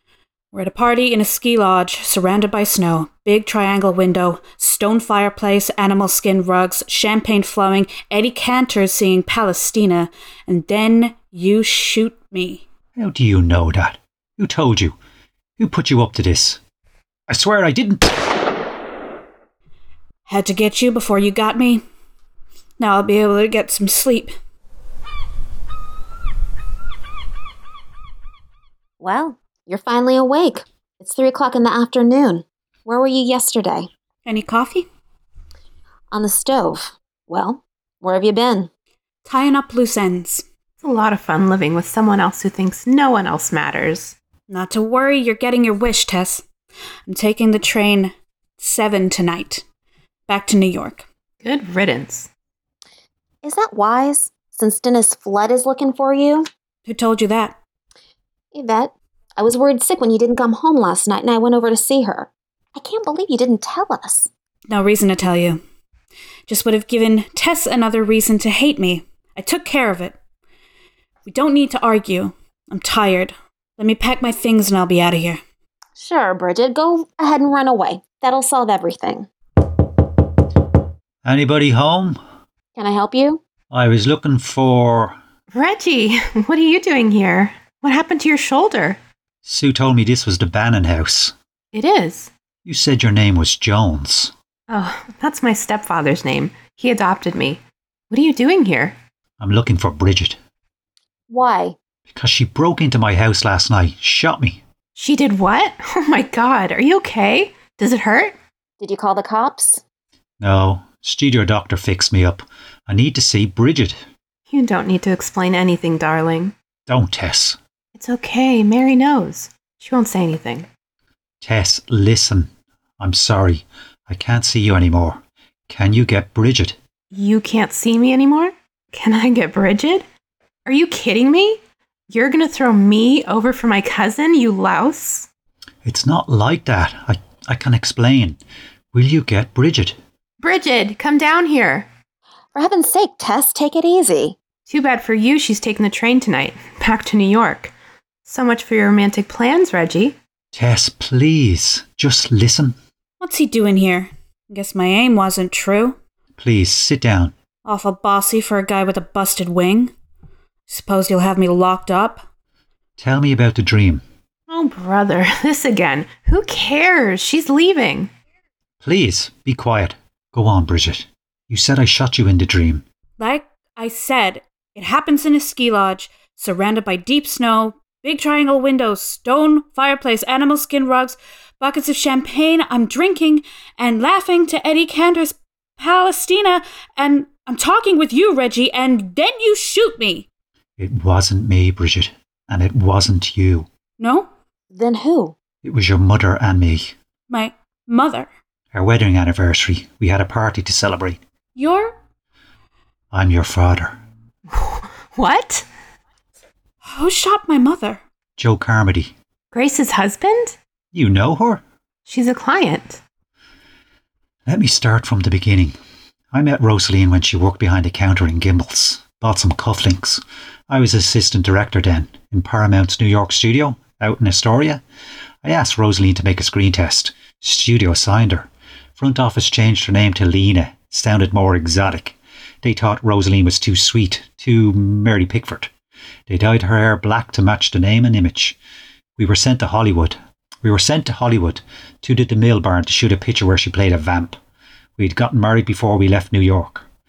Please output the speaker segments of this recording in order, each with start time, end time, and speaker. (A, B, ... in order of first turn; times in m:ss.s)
0:00.5-0:12.6 A
0:13.0-0:15.0 B
0:15.6-0:16.6 B
0:17.3-0:18.2 B
0:20.2-0:21.8 A
0:22.8-0:24.3 A
0:29.0-0:33.9 C
0:34.2-0:34.9 A
0:36.1-0:38.7 C
0:39.2-0:40.4 A
0:40.8-0:44.2 D
0:44.5-0:46.4 A
0:47.1-0:49.6 A
0:50.3-0:51.0 A
0:51.4-0:52.3 D
0:53.4-0:56.5 C
0:56.8-0:57.6 A
0:58.5-1:04.3 C
1:04.7-1:05.6 A
1:06.5-1:10.2 A
1:11.2-1:15.4 A
1:16.0-1:19.3 C
1:21.2-1:22.2 B
1:22.8-1:23.4 C
1:23.7-1:25.2 B
1:25.5-1:29.0 D
1:29.4-1:31.3 B
1:31.7-1:32.3 D
1:32.6-1:34.3 B
1:34.7-1:39.0 D
1:39.4-1:40.4 B
1:41.3-1:41.8 C
1:42.1-1:44.6 B
1:44.9-1:48.4 D
1:48.8-1:49.8 C
1:50.4-1:54.0 B
1:54.5-1:56.5 D
1:56.9-1:57.6 B
1:58.0-2:00.7 D
2:01.4-2:06.8 B
2:07.1-2:10.0 D
2:10.6-2:15.3 D
2:15.8-2:18.4 B
2:18.9-2:20.0 B
2:20.4-2:21.9 D
2:22.5-2:24.4 C
2:24.7-2:27.7 D
2:28.2-2:30.2 D
2:30.5-2:32.8 B
2:33.2-2:36.0 A
2:36.4-2:37.3 B
2:37.6-2:39.9 A
2:40.7-2:42.2 A
2:43.0-2:44.0 B
2:44.5-2:48.1 D
2:48.8-2:52.8 B
2:53.2-3:10.2 A
3:10.8-3:13.7 B
3:14.0-3:14.3 A
3:14.7-3:15.3 C
3:15.6-3:16.9 B
3:17.3-3:18.3 A
3:18.7-3:21.2 B
3:21.6-3:22.0 A
3:23.1-3:24.0 B
3:24.5-3:25.6 D
3:26.8-3:28.0 A
3:28.4-3:29.1 B
3:29.5-3:30.6 D
3:30.9-3:31.6 B
3:32.0-3:33.0 D
3:34.4-3:35.8 B
3:36.3-3:44.8 B
3:45.4-3:55.7 B
3:56.3-3:58.6 B
3:59.2-4:04.4 B
4:05.0-4:06.8 B